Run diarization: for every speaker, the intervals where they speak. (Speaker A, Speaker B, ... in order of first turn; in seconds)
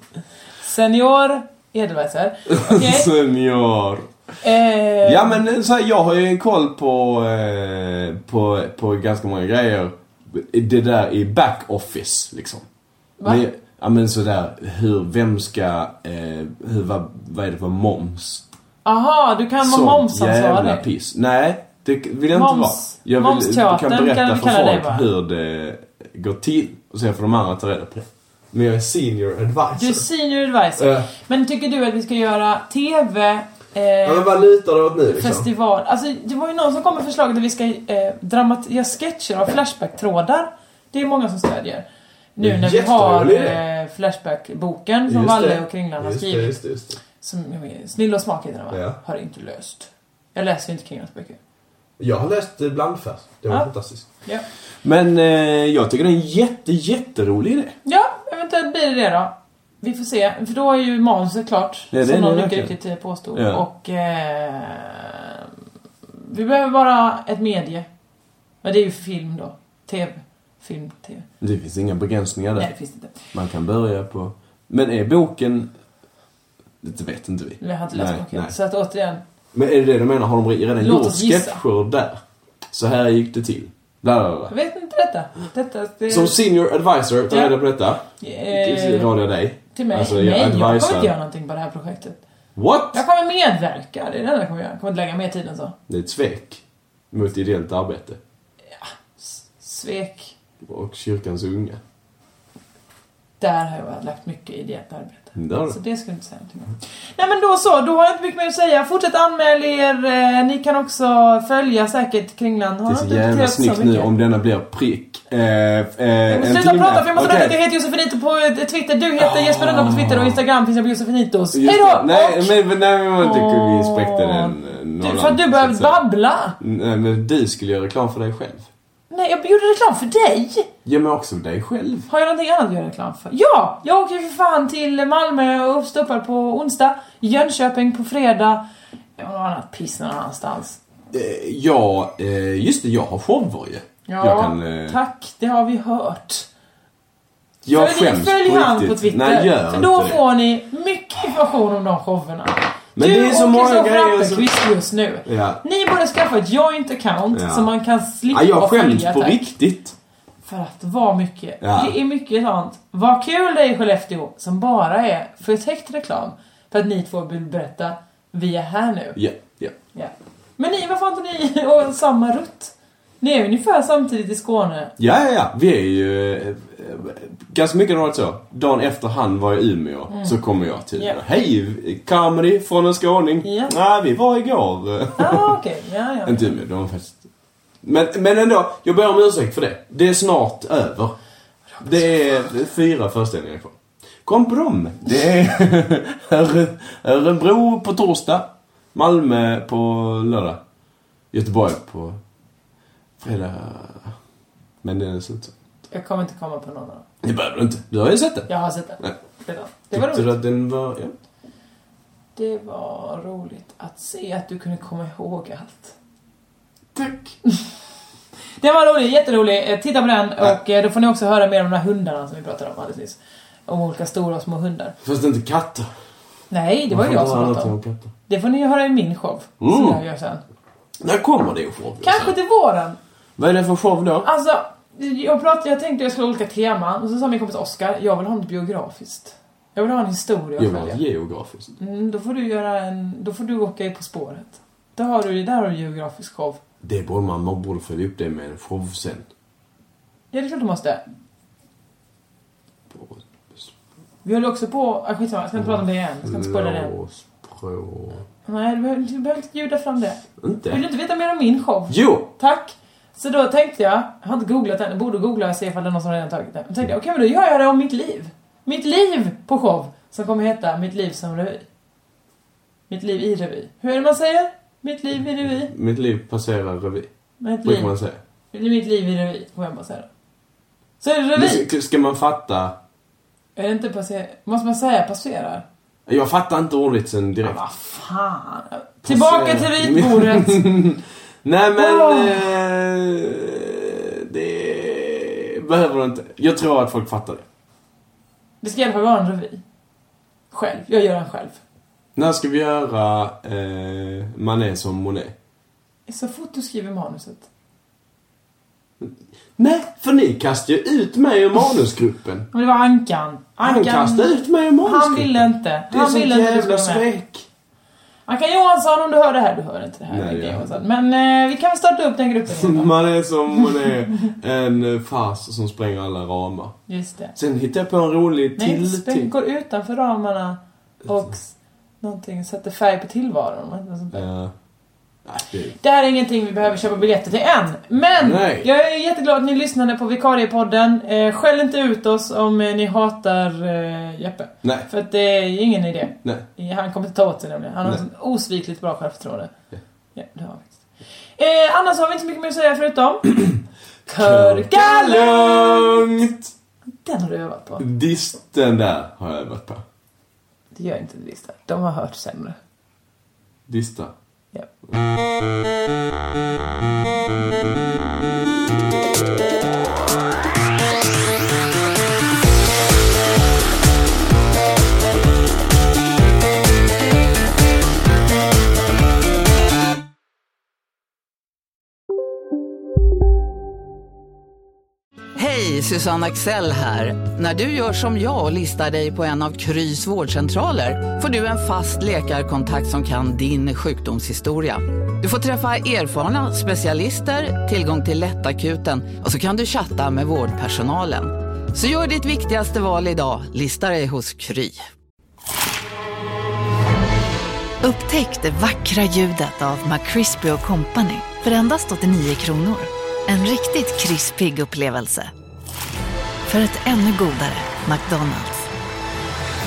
Speaker A: 0.6-3.1, 4.4-5.4, 18.8-20.8, 22.3-25.0, 29.7-34.3, 35.1-41.8, 42.4-46.6, 47.1-51.4, 57.9-65.4, 66.2-67.9, 68.6-71.2, 72.5-73.2, 77.6-79.2, 80.8-81.6, 84.5-86.4, 87.3-87.6, 88.2-89.1, 89.7-92.2, 92.9-95.7, 98.7-100.3, 103.4-114.1, 116.3-122.6, 123.2-126.6, 129.1-130.7, 132.1-138.6, 139.2-140.8, 144.1-146.5, 147.7-159.4, 160.4-169.2, 169.9-174.9, 180.1-180.4, 180.9-181.2, 183.4-183.7, 185.2-186.5, 205.9-207.0, 208.5-210.3, 212.3-215.9, 218.6-224.9, 226.5-227.7, 228.3-230.4, 232.0-233.0, 234.2-241.0, 241.8-246.6, 250.3-251.0, 254.2-256.9, 258.4-271.6, 272.9-275.7, 277.4-277.9, 278.5-280.1, 281.0-281.6, 283.6-285.6, 287.4-290.6, 291.8-292.5, 298.6-299.6, 300.5-301.6, 306.1-307.4, 312.5-317.0, 318.3-322.9, 326.9-327.3, 328.6-334.2, 335.8-349.5, 350.1-350.8, 351.4-353.3, 354.1-356.0, 357.0-357.8, 360.7-362.6
Speaker B: 2.5-4.1, 5.0-12.6, 13.2-18.4, 19.6-30.1, 30.8-31.1, 34.0-35.5, 42.4-43.6, 45.1-47.0, 48.7-49.0, 52.0-54.1, 54.8-57.7, 61.9-62.7, 63.3-63.6, 71.4-72.7, 73.3-75.7, 76.8-78.5, 79.5-82.2, 82.7-84.5, 86.1-91.1, 92.5-93.0, 95.9-98.2, 100.6-101.8, 105.3-105.8, 112.9-117.5, 119.2-120.4, 121.5-126.0, 126.6-128.7, 130.8-132.1, 141.1-145.0, 147.6-150.2, 152.9-154.5, 155.2-155.6, 157.3-157.7, 158.3-159.9, 161.6-161.9, 169.2-169.7, 175.0-185.5, 186.2-187.2, 187.8-191.1, 191.8-200.6, 201.3-202.2, 203.2-204.2, 204.8-205.5, 207.2-209.1, 209.9-211.1, 216.9-217.3, 225.0-225.9, 226.9-228.1, 229.6-230.0, 231.0-232.3, 233.4-234.3, 240.6-241.7, 246.8-249.3, 252.9-253.7, 255.6-258.2, 260.4-260.8, 261.9-262.3, 275.7-277.1, 277.6-278.2, 281.4-282.7, 286.1-287.6, 289.0-297.4, 302.1-305.3, 309.0-312.5, 313.6-317.4, 320.1-320.6, 322.5-326.8, 327.3-329.3, 334.1-334.5, 335.2-335.8, 338.2-338.7, 344.6-344.9, 354.1-356.5, 357.8-359.8, 363.7-364.1
Speaker C: 385.4-404.8
Speaker D: 407.8-415.3, 416.5-418.7